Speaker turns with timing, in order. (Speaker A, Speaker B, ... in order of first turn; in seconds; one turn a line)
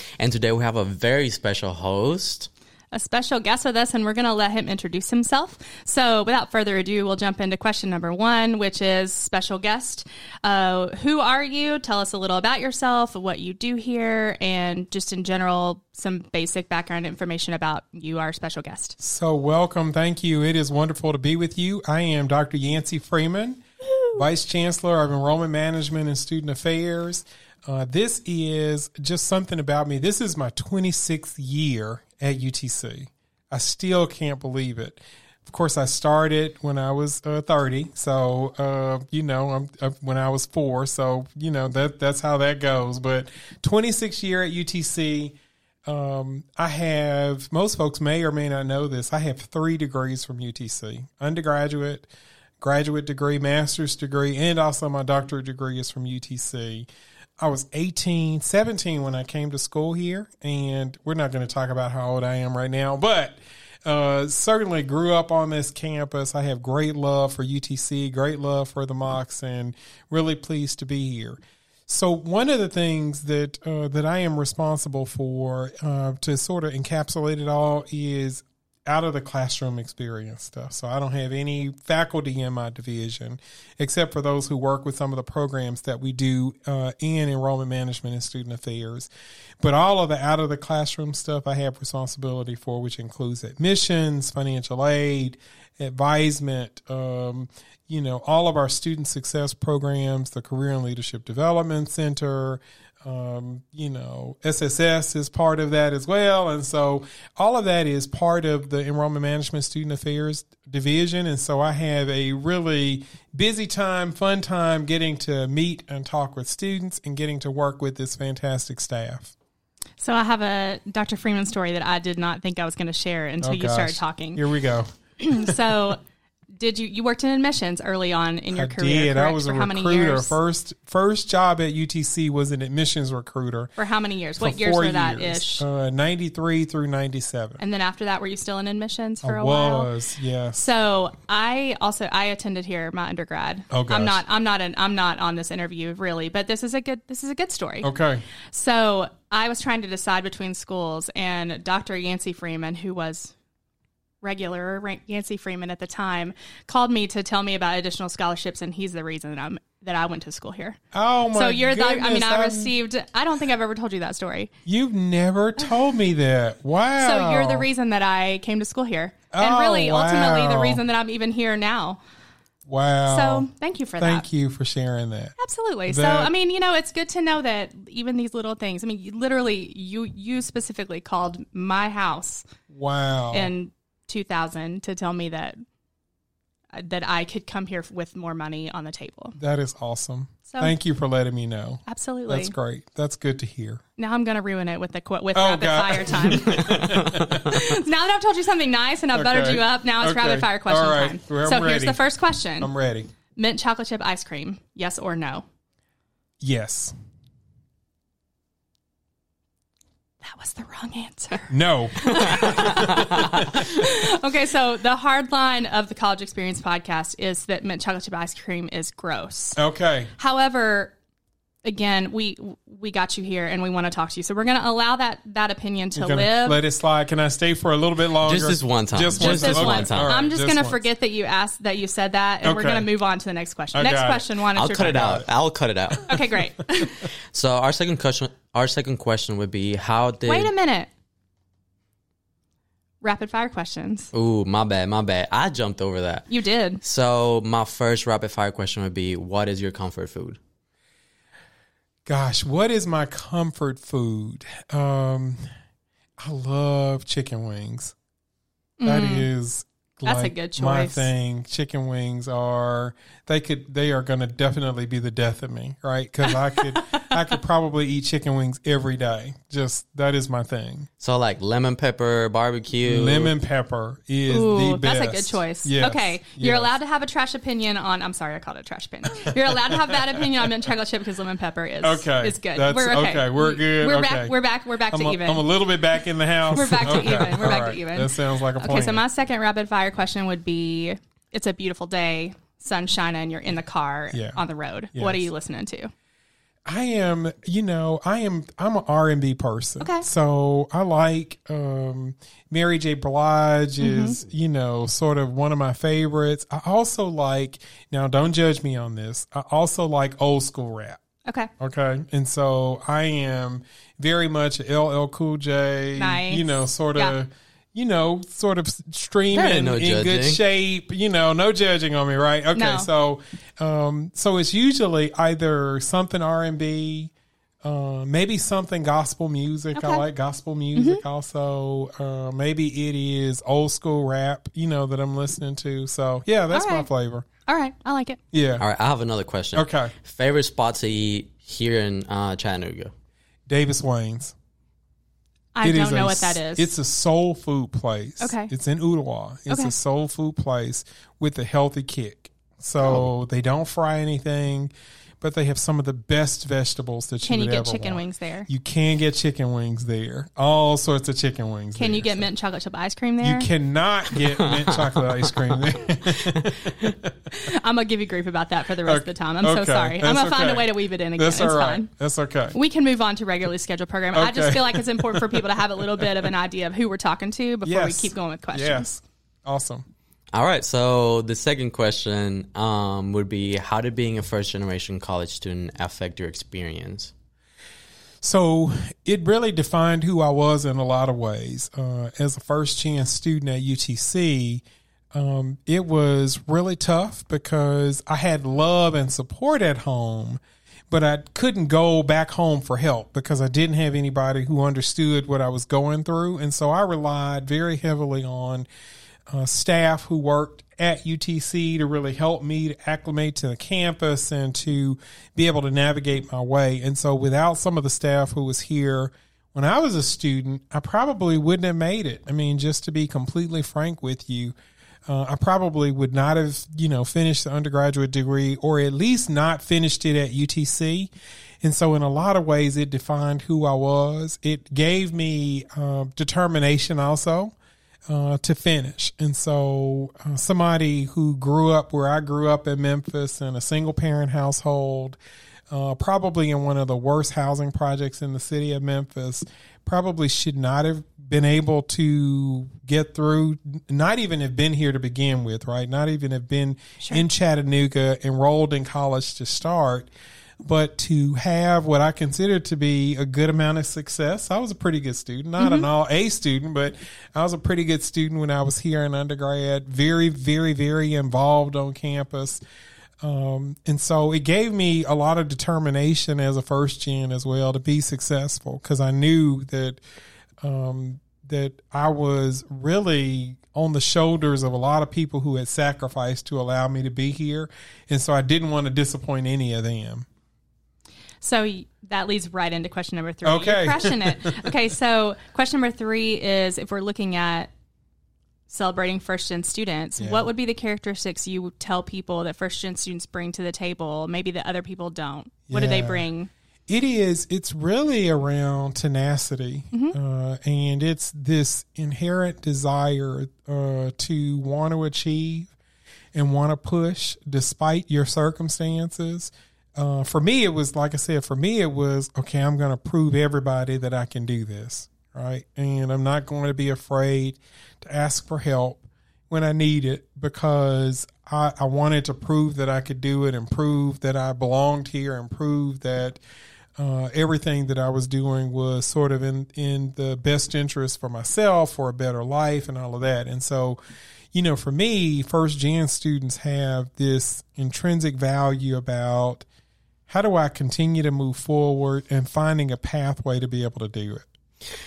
Speaker A: 0.2-2.5
Speaker B: 2.9-19.0
Speaker C: 19.0-23.6
Speaker B: 24.0-24.2
Speaker C: 24.1-52.1
Speaker C: 52.6-56.9
Speaker C: 57.4-119.3
Speaker B: 120.0-124.4
Speaker C: 123.4-125.6
Speaker B: 125.2-126.0
Speaker B: 126.6-130.4
Speaker C: 128.5-133.7
Speaker B: 133.8-135.7
Speaker C: 134.4-137.6
Speaker B: 137.6-139.9
Speaker C: 139.2-140.6
Speaker B: 140.6-147.9
Speaker C: 143.7-144.2
Speaker C: 147.8-148.2
Speaker B: 148.5-153.3
Speaker B: 154.2-160.8
Speaker C: 160.9-162.7
Speaker B: 161.3-164.5
Speaker C: 164.7-167.7
Speaker B: 167.0-172.0
Speaker C: 169.3-170.8
Speaker C: 172.7-176.3
Speaker B: 173.1-174.3
Speaker B: 175.4-182.5
Speaker C: 182.7-183.5
Speaker B: 183.3-185.6
Speaker B: 186.7-189.4
Speaker C: 189.4-193.8
Speaker B: 190.5-190.8
Speaker B: 191.9-192.5
Speaker B: 194.0-202.7
Speaker C: 195.3-197.4
Speaker C: 199.1-202.0
Speaker C: 202.6-203.1
Speaker B: 203.3-205.4
Speaker C: 206.4-206.9
Speaker B: 210.2-219.6
Speaker C: 211.5-213.5
Speaker C: 219.6-220.1
Speaker B: 220.2-221.0
Speaker B: 221.6-226.6
Speaker C: 226.0-230.8
Speaker A: 228.2-230.2
Speaker B: 229.2-235.2
Speaker C: 232.4-232.9
Speaker C: 233.7-235.3
Speaker A: 234.6-236.2
Speaker B: 236.1-237.0
Speaker A: 237.3-240.5
Speaker B: 240.3-240.9
Speaker B: 243.0-244.1
Speaker A: 244.1-246.3
Speaker B: 246.3-246.8
Speaker A: 246.8-250.4
Speaker C: 252.1-255.4
Speaker C: 256.2-257.9
Speaker B: 258.8-259.3
Speaker C: 258.8-270.9
Speaker B: 260.1-261.1
Speaker A: 271.0-273.3
Speaker C: 272.9-276.7
Speaker B: 274.3-285.5
Speaker C: 281.8-284.4
Speaker C: 284.9-289.0
Speaker B: 286.5-295.9
Speaker C: 294.1-294.4
Speaker C: 294.9-295.3
Speaker C: 296.7-311.0
Speaker B: 299.8-300.1
Speaker B: 303.8-304.2
Speaker C: 311.6-327.1
Speaker B: 316.0-317.2
Speaker A: 319.3-320.4
Speaker B: 322.5-322.9
Speaker C: 327.6-337.3
Speaker B: 329.7-330.0
Speaker B: 330.8-331.0
Speaker B: 336.5-336.9
Speaker B: 337.5-338.2
Speaker C: 338.3-338.6
Speaker A: 338.6-342.9
Speaker C: 339.5-339.9
Speaker C: 343.5-344.4
Speaker B: 345.6-346.7
Speaker C: 345.6-362.3
Speaker B: 348.2-348.5
Speaker B: 349.5-349.7
Speaker A: 352.8-353.1
Speaker B: 357.2-358.5
Speaker B: 361.8-363.5
Speaker C: 363.2-367.1
Speaker A: 364.1-365.7
Speaker B: 367.3-371.9
Speaker C: 368.9-372.6
Speaker B: 372.5-378.9
Speaker C: 374.1-375.4
Speaker C: 377.6-379.9
Speaker A: 380.3-387.1
Speaker C: 388.2-408.7
Speaker C: 409.3-424.6
Speaker C: 425.1-437.6
Speaker C: 438.1-445.2
Speaker C: 445.7-460.1
Speaker C: 460.6-472.6
Speaker B: 465.6-465.9
Speaker C: 473.2-480.0
Speaker C: 480.6-490.3
Speaker B: 491.4-497.7
Speaker C: 493.4-494.6
Speaker B: 498.7-506.5
Speaker C: 500.2-500.5
Speaker C: 505.7-506.3
Speaker C: 506.9-515.7
Speaker C: 516.4-536.4
Speaker C: 537.0-544.0
Speaker C: 544.5-549.7
Speaker C: 550.3-554.5